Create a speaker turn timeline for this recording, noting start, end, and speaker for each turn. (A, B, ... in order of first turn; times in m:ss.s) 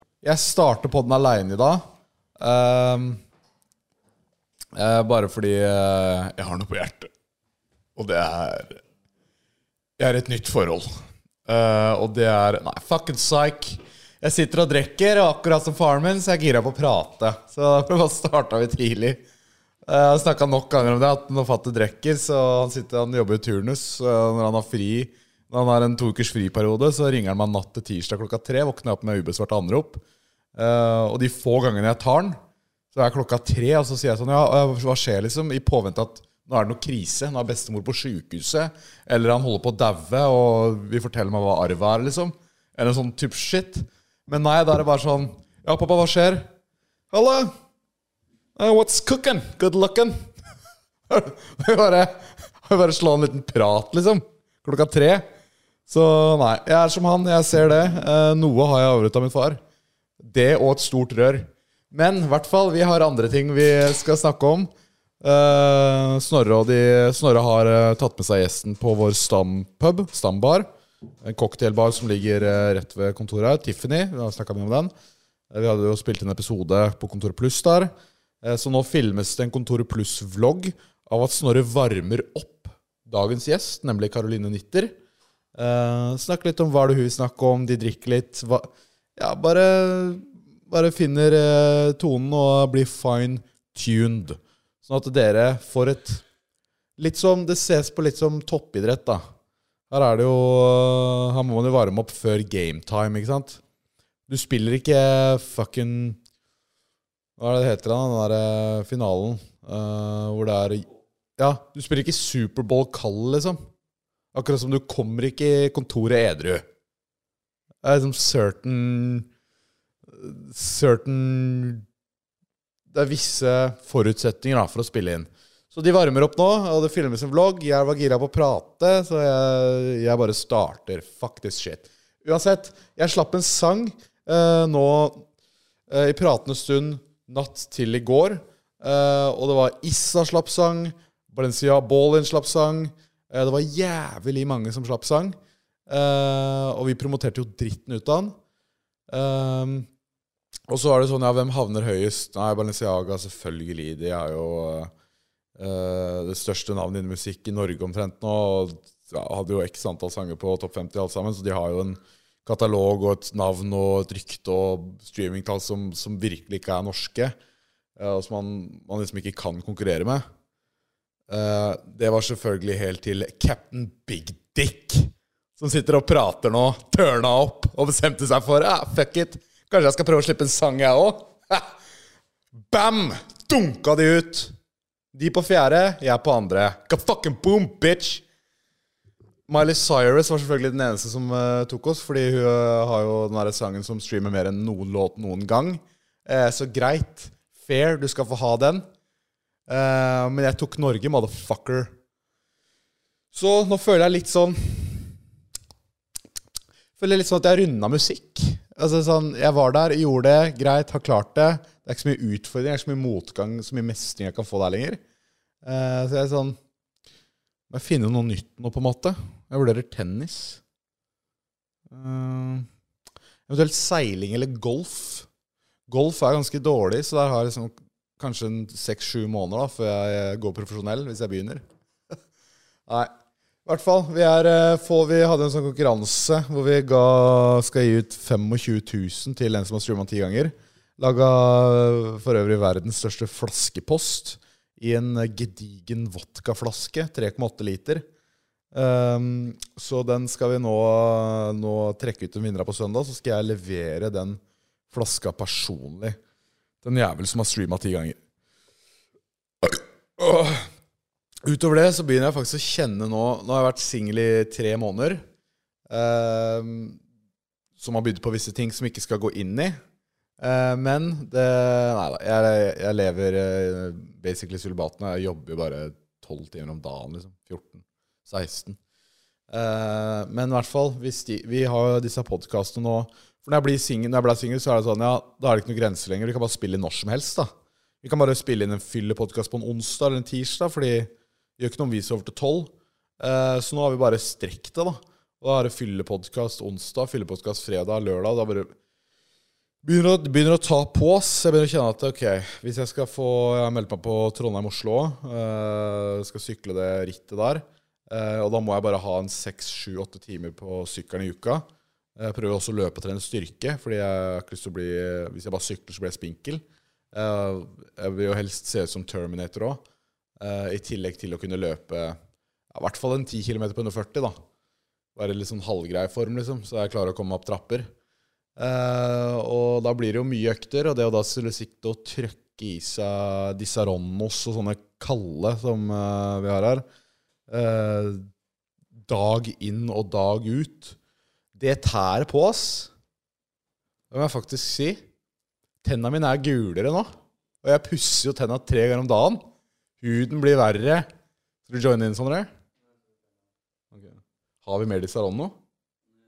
0:00.2-0:01.8 A
0:02.4-0:03.2 A
0:04.7-0:07.1 A
0:08.0-0:08.8 A
0:10.0-0:10.9 A
0:11.4-0:19.2 A
0:19.8-0:30.0 A
0:30.5-0:32.4 A
0:32.9-0:46.5 A
0:47.1-0:47.5 A
0:48.6-0:50.3 A
0:51.1-0:55.3 A
0:55.9-0:59.6 A
1:00.2-1:10.7 A
1:11.2-1:14.9 A
1:15.5-1:24.9 A
1:25.5-1:36.2 A
1:37.0-1:39.2 A
1:39.9-1:43.6 A
1:44.3-1:46.2 A
1:47.4-1:50.8 A
1:51.4-1:53.6 A
1:54.3-1:56.6 A
1:57.8-1:59.3 A
2:00.1-2:01.8 A
2:02.9-2:15.2 A
2:15.9-2:25.4 A
2:25.9-2:28.4 A
2:29.1-2:29.9 A
2:30.7-2:34.9 A
2:35.6-2:47.4 A
2:48.0-2:50.2 A
2:51.3-3:01.8 A
3:02.7-3:04.5 A
3:05.1-3:08.2 A
3:09.5-3:18.9 A
3:19.7-3:21.9 A
3:23.3-3:25.1 A
3:27.0-3:35.0 A
3:35.6-3:36.6 A
3:37.7-3:40.6 A
3:41.9-3:42.7 A
3:43.5-3:45.3 A
3:45.9-3:51.6 A
3:52.9-3:53.1 A
3:53.6-4:08.0 A
4:08.7-4:16.2 A
4:16.8-4:18.2 A
4:19.6-4:20.7 A
4:21.4-4:25.2 A
4:25.9-4:27.0 A
4:27.8-4:29.8 A
4:30.4-4:38.8 A
4:39.5-4:47.5 A
4:48.0-4:58.7 A
4:59.8-5:19.8 A
5:20.4-5:22.2 A
5:22.7-5:24.4 A
5:25.2-5:27.9 A
5:28.6-5:36.8 A
5:37.5-5:38.3 A
5:39.1-5:41.0 A
5:41.6-5:42.9 A
5:44.1-5:45.0 A
5:45.8-5:47.1 A
5:47.6-5:51.1 A
5:51.7-5:52.5 A
5:53.9-5:55.6 A